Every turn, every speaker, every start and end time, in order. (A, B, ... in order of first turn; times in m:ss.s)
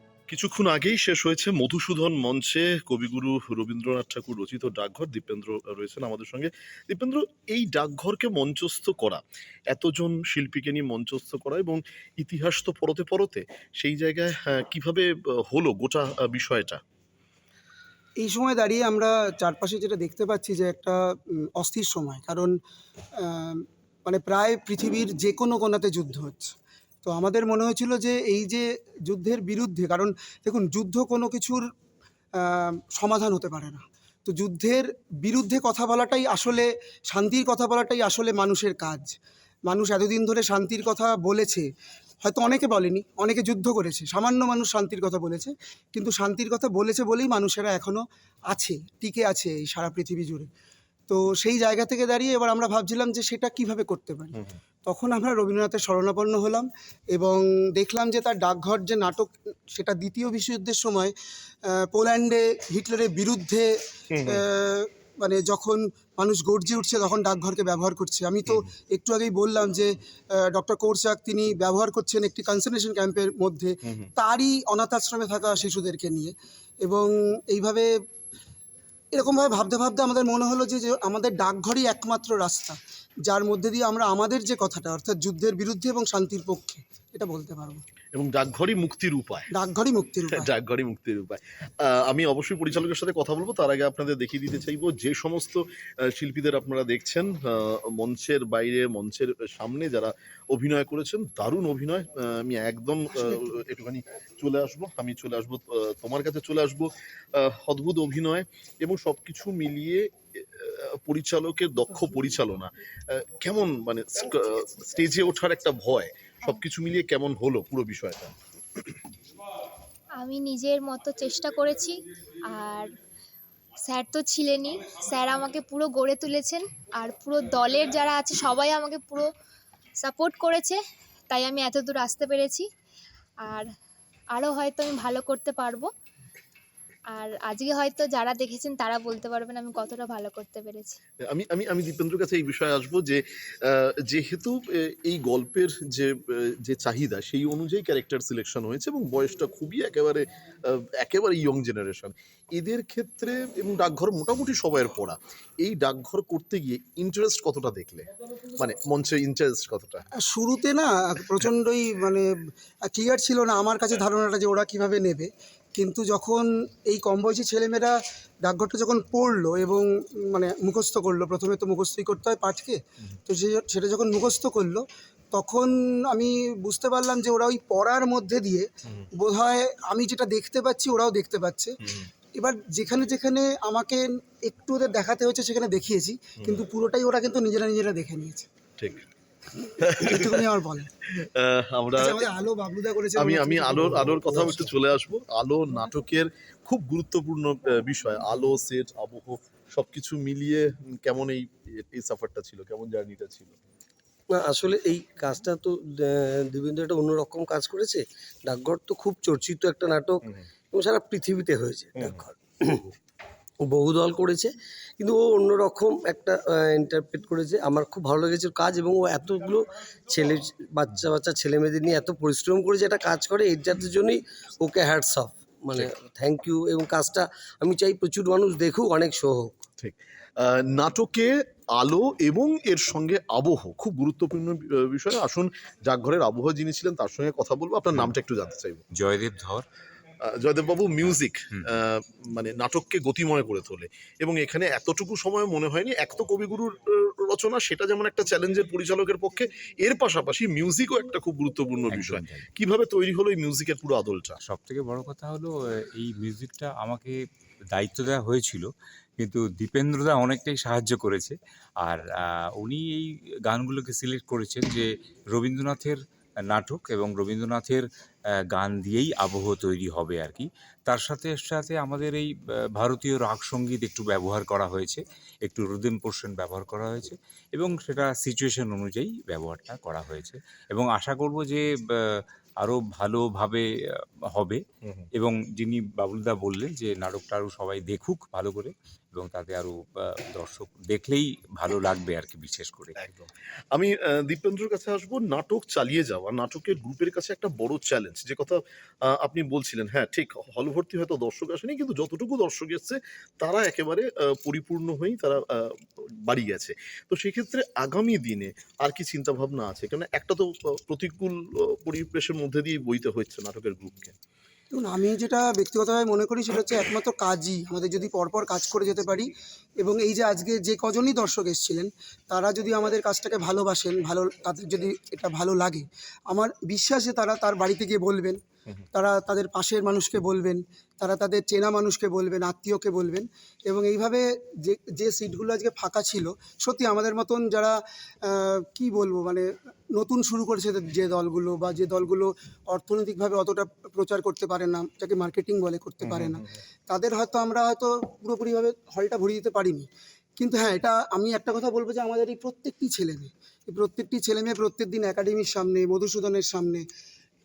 0:00.3-0:16.8 A
0:18.2-0:21.0 B
0:21.6-0:22.5 B
0:23.2-0:26.5 B
0:27.0-0:31.6 B
0:32.4-0:39.1 B
0:39.7-0:41.7 B
0:42.2-0:50.5 B
0:51.1-1:01.1 B
1:01.8-1:03.7 B
1:04.2-1:09.9 B
1:10.5-1:17.9 B
1:19.1-1:27.8 B
1:28.1-1:29.5 A
1:29.5-1:30.5 B
1:30.4-1:50.0 A
1:50.5-1:58.3 A
2:00.2-2:02.0 C
2:02.5-2:02.9 C
2:03.8-2:09.3 C
2:10.0-2:10.8 C
2:11.3-2:12.7 C
2:14.3-2:15.9 C
2:17.1-2:21.0 C
2:21.3-2:40.0 A
2:40.3-2:42.3 B
2:42.9-3:01.7 B
3:02.3-3:08.5 B
3:08.8-3:09.0 A
3:09.8-3:10.3 A
3:09.9-3:10.9 B
3:11.2-3:12.2 A
3:12.0-3:14.7 B
3:13.2-3:23.5 A
3:24.3-3:32.8 D
3:32.0-3:32.2 A
3:33.6-3:49.6 D
3:49.8-3:58.8 A
3:58.9-3:59.6 E
4:00.2-4:14.4 A
4:01.1-4:01.7 E
4:11.9-4:12.5 E
4:14.4-4:17.1 E
4:17.7-4:18.7 E
4:19.2-4:27.9 E
4:28.5-4:43.6 E
4:44.3-4:44.6 E
4:45.1-4:52.9 E
4:53.0-5:05.6 A
5:06.2-5:14.1 A
5:14.7-5:19.3 B
5:19.8-5:28.4 B
5:28.9-5:37.8 B
5:38.3-5:56.8 B